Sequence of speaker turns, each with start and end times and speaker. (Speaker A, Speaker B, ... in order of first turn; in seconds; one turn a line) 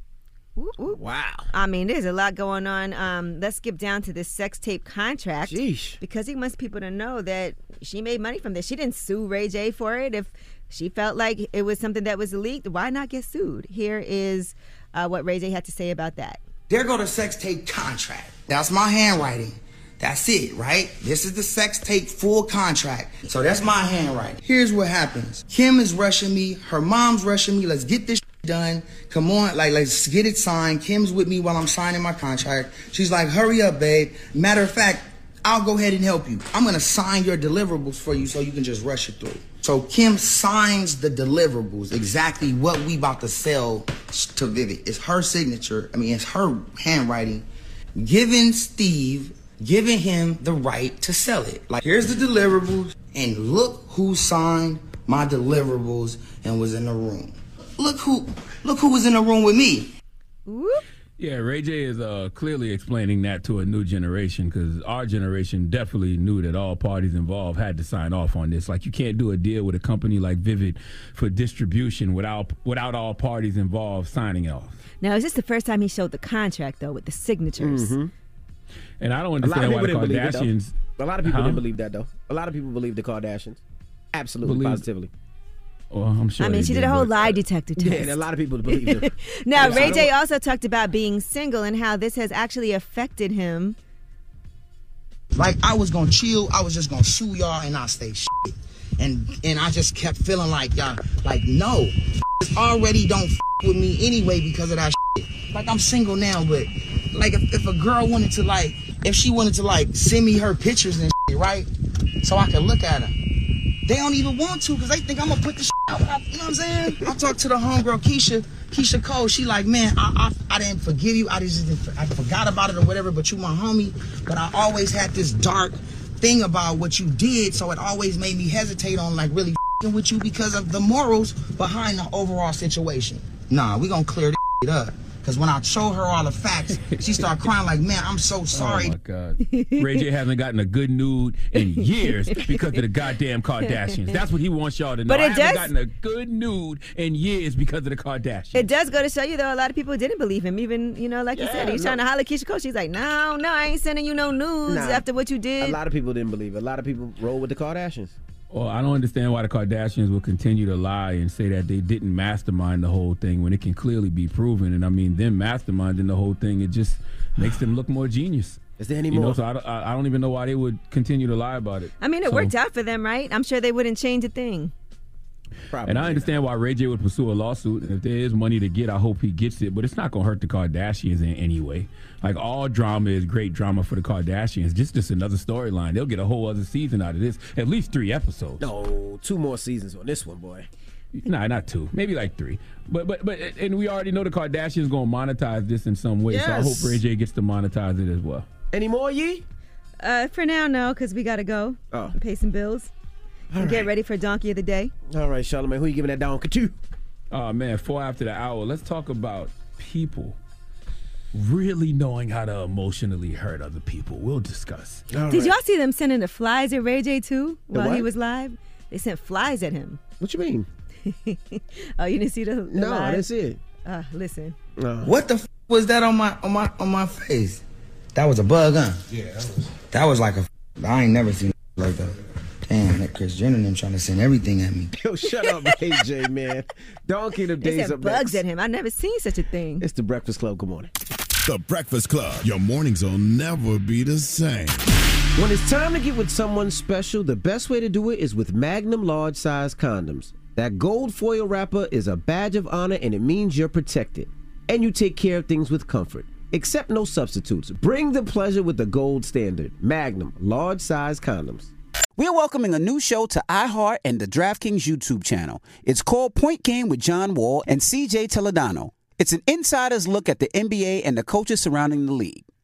Speaker A: 0.6-1.0
Speaker B: 0.9-1.5
Speaker A: 1.5-16.4
Speaker B: 5.5-6.0
Speaker C: 16.7-47.4
Speaker C: 48.0-59.9
Speaker A: 60.5-60.8
Speaker D: 61.2-74.8
Speaker A: 75.0-77.9
Speaker B: 77.6-78.1
Speaker D: 79.0-81.6
Speaker B: 79.4-83.6
Speaker B: 84.1-85.1
Speaker D: 84.4-84.8
Speaker D: 85.9-87.4
Speaker A: 86.4-93.8
Speaker B: 87.8-90.1
Speaker D: 89.6-89.9
Speaker C: 95.3-111.7
Speaker C: 112.2-113.1
Speaker C: 113.8-138.9
Speaker D: 136.8-137.1
Speaker D: 138.5-148.7
Speaker A: 145.1-145.7
Speaker A: 148.5-155.8
Speaker B: 151.3-152.0
Speaker B: 154.7-155.0
Speaker B: 155.6-158.1
Speaker D: 158.5-172.5
Speaker B: 168.8-169.4
Speaker A: 172.0-174.7
Speaker B: 175.7-176.3
Speaker D: 175.8-188.7
Speaker B: 188.6-190.7
Speaker D: 191.1-198.4
Speaker B: 196.3-197.0
Speaker B: 198.7-199.4
Speaker A: 200.0-202.9
Speaker B: 203.5-203.9
Speaker A: 203.6-204.9
Speaker B: 205.1-206.7
Speaker D: 207.3-210.4
Speaker D: 211.3-215.1
Speaker B: 215.1-215.6
Speaker A: 215.3-220.0
Speaker B: 217.7-218.1
Speaker B: 220.2-220.7
Speaker A: 221.1-223.3
Speaker B: 222.7-223.6
Speaker A: 223.8-224.6
Speaker B: 224.8-225.1
Speaker C: 225.0-227.6
Speaker C: 228.1-229.0
Speaker C: 229.9-232.1
Speaker C: 232.7-234.9
Speaker B: 235.0-238.4
Speaker A: 237.6-239.8
Speaker B: 239.8-240.9
Speaker E: 241.4-244.9
Speaker B: 245.4-261.7
Speaker F: 262.2-272.4